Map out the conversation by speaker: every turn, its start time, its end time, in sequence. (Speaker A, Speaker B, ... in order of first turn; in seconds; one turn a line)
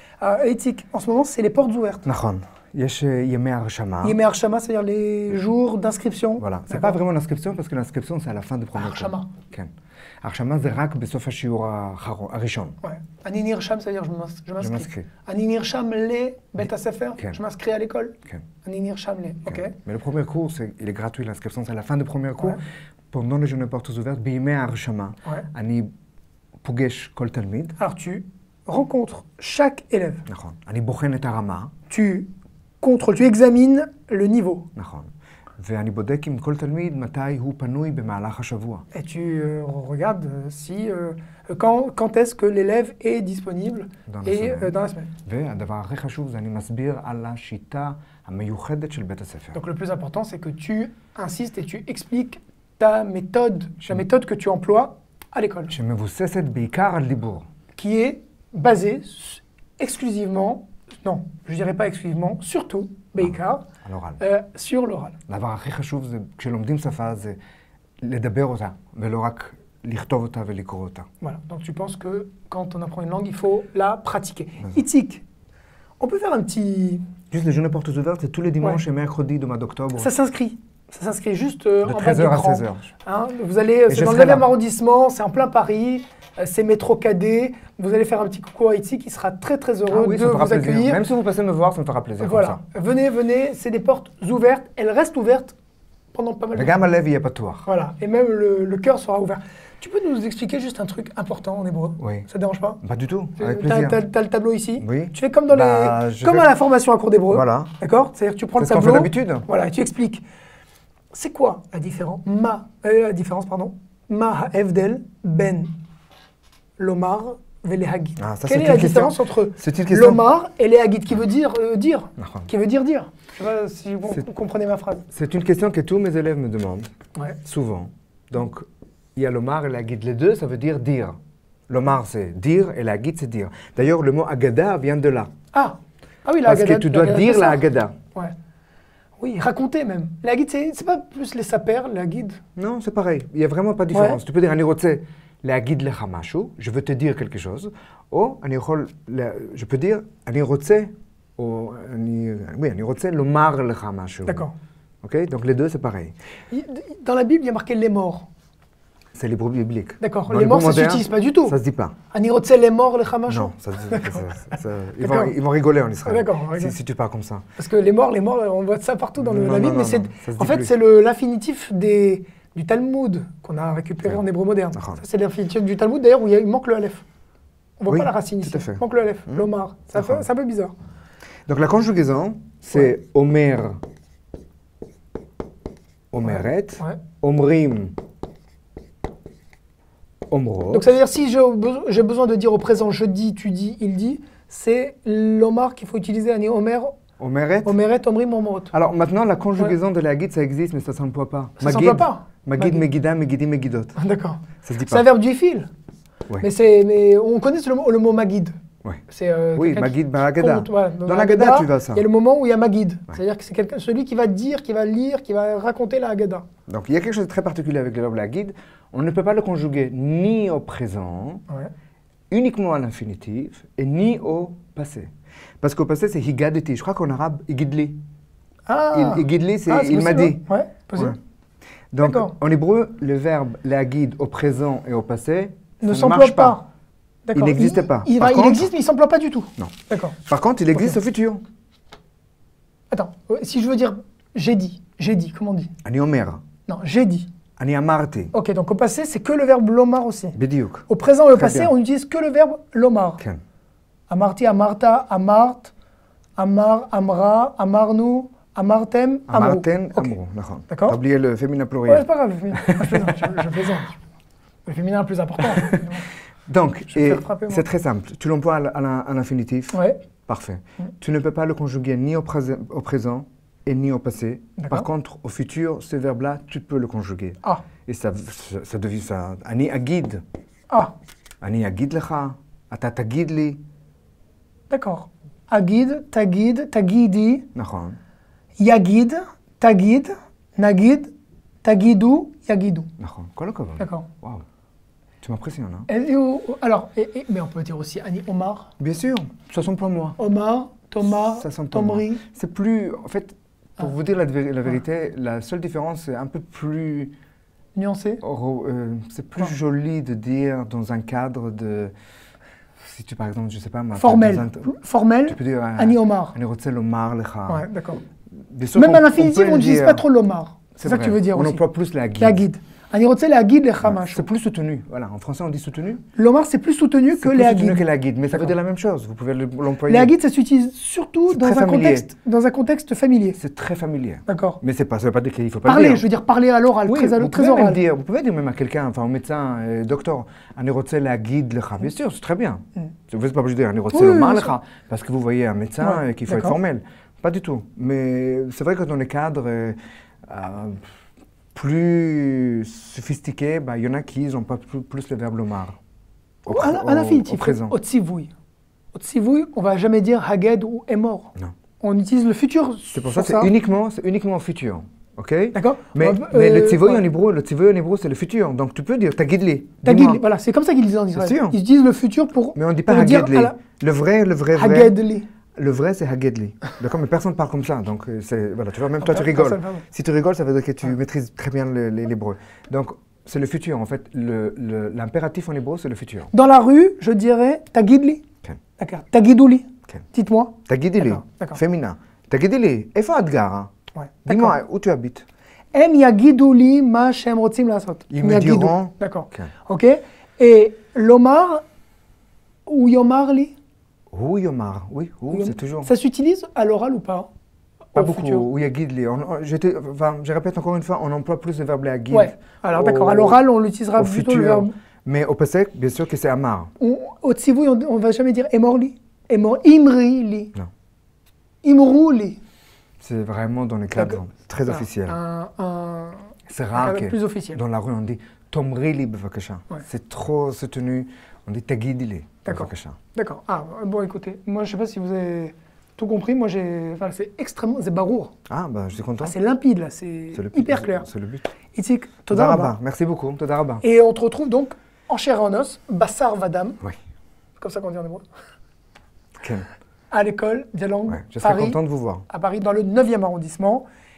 Speaker A: 0.2-2.1
Speaker B: 2.0-4.2
Speaker A: 4.0-7.0
Speaker B: 6.4-9.7
Speaker A: 8.7-9.3
Speaker B: 10.2-12.8
Speaker A: 12.8-19.7
Speaker B: 14.6-15.1
Speaker B: 19.4-22.6
Speaker B: 23.1-25.9
Speaker B: 26.6-27.8
Speaker A: 27.8-30.2
Speaker B: 30.3-31.7
Speaker A: 31.9-32.3
Speaker A: 32.8-34.7
Speaker B: 34.7-38.8
Speaker A: 38.9-45.1
Speaker B: 44.1-49.6
Speaker A: 49.5-55.7
Speaker B: 55.7-57.4
Speaker A: 57.8-63.6
Speaker B: 63.2-64.2
Speaker A: 64.2-65.2
Speaker B: 65.3-67.4
Speaker B: 68.0-71.1
Speaker A: 71.2-75.2
Speaker A: 76.0-77.0
Speaker B: 77.3-80.1
Speaker A: 80.0-91.0
Speaker B: 81.8-82.9
Speaker B: 83.9-84.5
Speaker B: 89.9-92.6
Speaker A: 92.2-95.5
Speaker A: 96.1-96.8
Speaker B: 96.5-97.7
Speaker A: 97.7-102.8
Speaker B: 102.0-102.2
Speaker B: 102.8-104.0
Speaker A: 103.4-110.2
Speaker B: 104.8-106.5
Speaker B: 107.3-107.7
Speaker B: 108.6-109.5
Speaker A: 111.1-115.7
Speaker A: 116.8-125.0
Speaker B: 118.2-120.2
Speaker B: 122.2-122.5
Speaker B: 125.1-126.9
Speaker B: 127.4-128.6
Speaker B: 129.2-131.2
Speaker B: 131.7-135.3
Speaker A: 135.5-137.6
Speaker B: 136.4-137.9
Speaker A: 139.2-142.4
Speaker B: 142.6-154.4
Speaker A: 143.9-144.2
Speaker A: 154.2-154.5
Speaker B: 155.0-156.1
Speaker A: 156.5-158.3
Speaker B: 159.1-161.9
Speaker A: 160.0-161.6
Speaker A: 162.1-164.4
Speaker B: 163.3-167.4
Speaker A: 165.0-165.3
Speaker A: 166.0-166.7
Speaker A: 167.6-177.0
Speaker B: 169.2-170.7
Speaker B: 174.7-175.0
Speaker A: 177.8-180.7
Speaker B: 177.9-180.2
Speaker B: 181.5-183.8
Speaker B: 186.1-187.9
Speaker A: 186.3-187.0
Speaker B: 190.3-190.9
Speaker A: 190.7-196.9
Speaker B: 197.2-197.8
Speaker A: 197.6-198.7
Speaker B: 198.7-203.9
Speaker A: 201.6-202.8
Speaker A: 203.9-205.7
Speaker B: 204.6-205.0
Speaker A: 206.4-208.5
Speaker A: 209.1-216.4
Speaker B: 209.6-212.1
Speaker B: 216.7-221.4
Speaker B: 222.3-225.1
Speaker B: 225.6-228.0
Speaker A: 228.7-231.1
Speaker B: 228.9-230.4
Speaker B: 231.9-236.6
Speaker A: 232.0-232.3
Speaker A: 235.8-236.6
Speaker A: 237.2-240.2
Speaker B: 237.3-238.7
Speaker B: 240.2-241.4
Speaker A: 242.9-245.7
Speaker B: 245.8-246.4
Speaker A: 246.7-247.3
Speaker B: 247.6-248.3
Speaker A: 248.3-250.4
Speaker B: 250.3-251.7
Speaker A: 250.9-253.2
Speaker A: 254.1-255.7
Speaker A: 256.4-260.1
Speaker B: 259.3-263.4
Speaker A: 260.7-261.0
Speaker A: 261.9-264.0
Speaker A: 264.6-266.1
Speaker B: 265.5-265.8
Speaker B: 266.5-280.2
Speaker A: 266.9-267.6
Speaker A: 269.7-270.0
Speaker A: 274.6-274.9
Speaker B: 281.4-283.6
Speaker A: 284.7-287.4
Speaker B: 287.5-288.0
Speaker A: 288.6-291.1
Speaker A: 291.6-292.9
Speaker B: 293.0-294.4
Speaker A: 293.8-294.1
Speaker B: 295.2-295.9
Speaker A: 295.9-298.7
Speaker B: 298.8-300.2
Speaker A: 300.2-302.2
Speaker B: 301.2-307.1
Speaker A: 307.8-308.2
Speaker B: 308.2-311.9
Speaker B: 312.8-314.7
Speaker A: 313.9-316.3
Speaker B: 315.3-317.6
Speaker A: 317.5-318.0
Speaker B: 318.4-320.0
Speaker A: 318.7-321.6
Speaker B: 320.8-322.4
Speaker A: 322.2-324.3
Speaker B: 323.8-326.0
Speaker A: 326.1-327.8
Speaker B: 327.2-330.1
Speaker A: 329.9-333.4
Speaker B: 331.3-332.1
Speaker B: 333.4-336.0
Speaker A: 334.3-334.6
Speaker A: 335.6-337.8
Speaker B: 336.9-350.9
Speaker A: 343.9-344.5
Speaker A: 345.8-346.6
Speaker B: 351.5-355.8
Speaker A: 356.4-358.3
Speaker B: 356.4-357.8
Speaker A: 358.9-363.5
Speaker B: 362.9-370.2
Speaker A: 365.5-367.0
Speaker A: 369.8-373.6
Speaker B: 371.1-371.6
Speaker B: 372.5-374.9
Speaker A: 374.5-375.2
Speaker B: 375.6-386.3
Speaker A: 379.0-379.8
Speaker A: 386.3-388.2
Speaker A: 388.8-391.6
Speaker B: 390.6-393.7
Speaker A: 393.9-394.6
Speaker B: 394.2-395.2
Speaker A: 395.7-401.6
Speaker B: 398.1-399.5
Speaker A: 402.6-403.5
Speaker B: 404.1-405.9
Speaker A: 405.3-407.3
Speaker A: 407.9-408.5
Speaker B: 407.9-413.4
Speaker A: 412.1-414.7
Speaker B: 413.9-416.7
Speaker A: 416.8-420.5
Speaker A: 421.6-422.4
Speaker B: 423.0-425.2
Speaker A: 424.0-427.6
Speaker B: 426.5-432.9
Speaker A: 432.4-438.3
Speaker B: 438.5-439.4
Speaker A: 439.2-441.1
Speaker B: 440.3-441.5
Speaker A: 441.7-442.7
Speaker B: 442.3-443.8
Speaker A: 443.8-446.8
Speaker A: 447.6-448.2
Speaker B: 449.4-449.7
Speaker A: 450.1-453.8
Speaker B: 451.1-452.2